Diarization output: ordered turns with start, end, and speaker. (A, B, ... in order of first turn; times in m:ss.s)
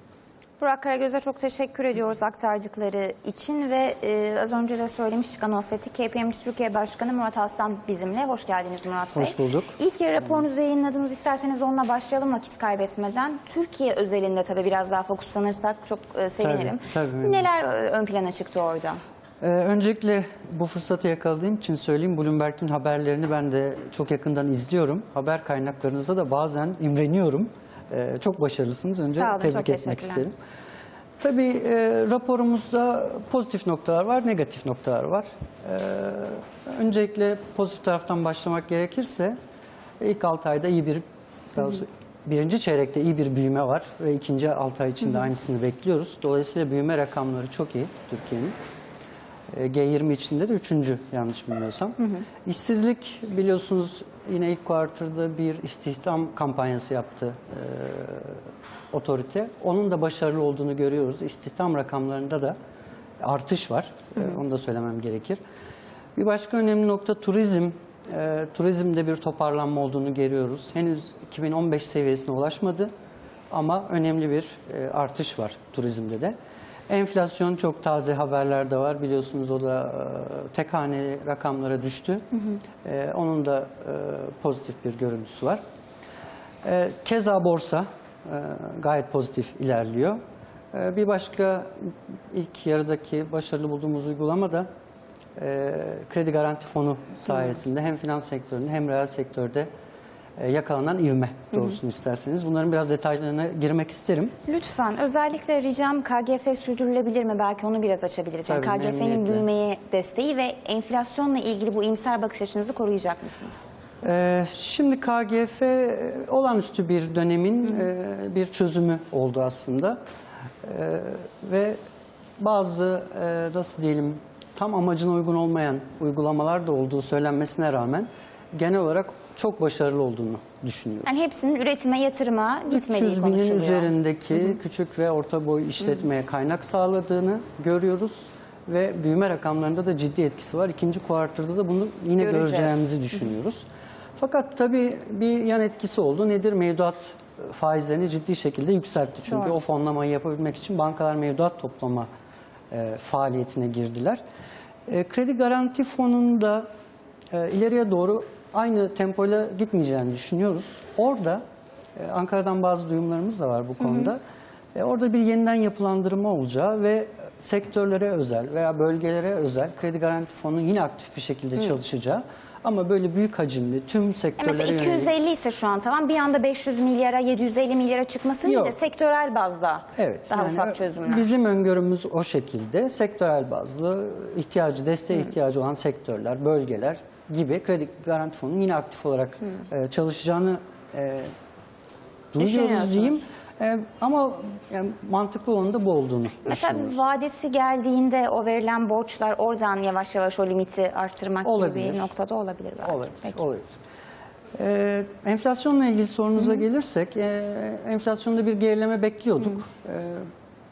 0:00.6-0:19.0 A
0:09.1-0:09.8 B
0:16.4-0:17.5 B
0:19.4-0:30.3 B
0:29.1-0:30.2 A
0:31.2-0:39.4 B
0:40.0-0:48.5 B
0:49.5-0:58.4 B
0:58.9-1:02.6 B
1:03.2-1:05.4 B
1:06.2-1:12.9 B
1:13.5-1:16.3 B
1:16.9-1:22.2 B
1:22.8-1:25.6 B
1:26.6-1:30.2 B
1:30.7-1:34.7 B
1:35.4-1:39.7 B
1:40.4-1:44.3 B
1:44.4-1:53.7 A
1:48.4-1:49.5 B
1:54.0-2:00.0 B
2:00.6-2:01.8 B
2:02.4-2:11.2 B
2:11.0-2:13.9 A
2:12.7-2:23.6 B
2:22.2-2:22.8 A
2:24.2-2:32.1 B
2:32.7-2:34.2 B
2:34.9-2:36.6 B
2:37.3-2:41.4 B
2:42.0-2:44.2 B
2:44.7-2:55.1 B
2:54.4-3:01.3 A
2:58.4-2:58.8 B
3:00.0-3:11.3 B
3:12.3-3:17.0 B
3:12.4-3:13.2 A
3:16.4-3:23.4 A
3:21.4-3:22.1 B
3:22.8-3:23.7 B
3:24.6-3:30.3 B